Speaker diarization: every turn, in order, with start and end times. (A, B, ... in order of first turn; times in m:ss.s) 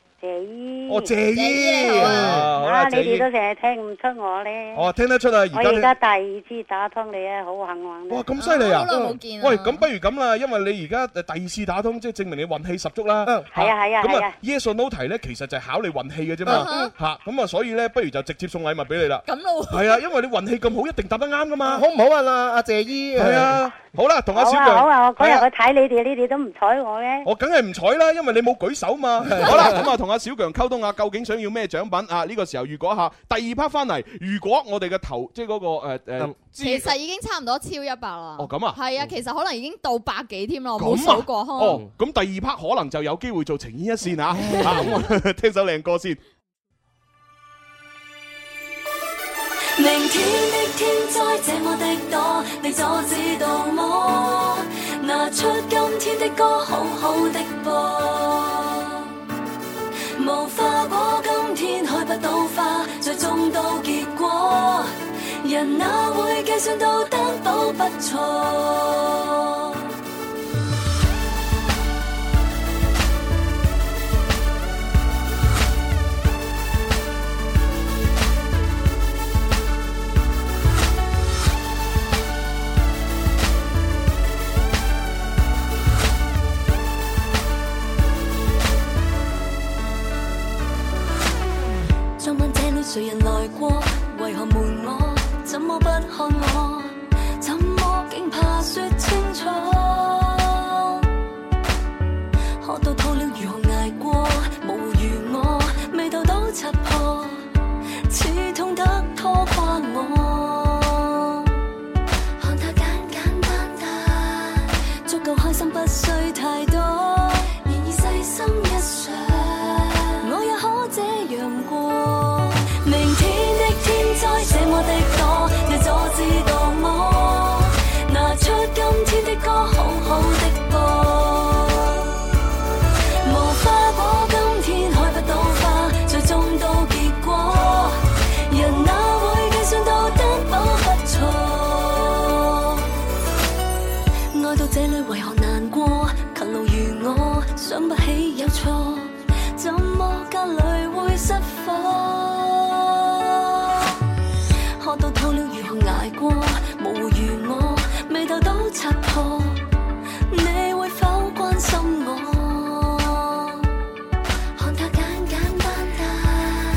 0:00.2-0:01.1 A
0:00.9-0:03.3 B
0:01.3-0:02.4 C
0:01.9-0:02.5 D
0:02.6-0:04.8 A
0:04.7-0:05.9 B
0:05.5-0:08.3 A
0:08.1-0:21.8 B
0:08.4-0:09.8 C
0:08.9-0:09.2 D
0:13.5-0:14.3 A
0:16.4-0:16.9 D
0:16.5-0:16.9 C
0:19.2-0:20.0 C
0:21.6-0:23.6 D
0:23.2-0:25.5 B
0:24.3-0:27.2 A
0:27.2-0:36.9 B
0:29.3-0:29.8 D
0:36.6-0:41.8 C
0:38.4-0:38.8 B
0:40.8-0:46.2 B
0:44.3-0:45.0 D
0:44.5-0:44.9 C
0:49.8-0:59.1 E
1:00.2-1:09.8 E
1:32.2-1:41.1 E
1:42.6-1:47.4 E
1:48.1-1:51.5 E
1:52.4-2:12.1 E
2:13.2-2:22.9 E
2:24.3-2:33.5 E
2:34.8-2:39.6 E
2:40.3-2:43.7 E
2:44.6-2:46.6 E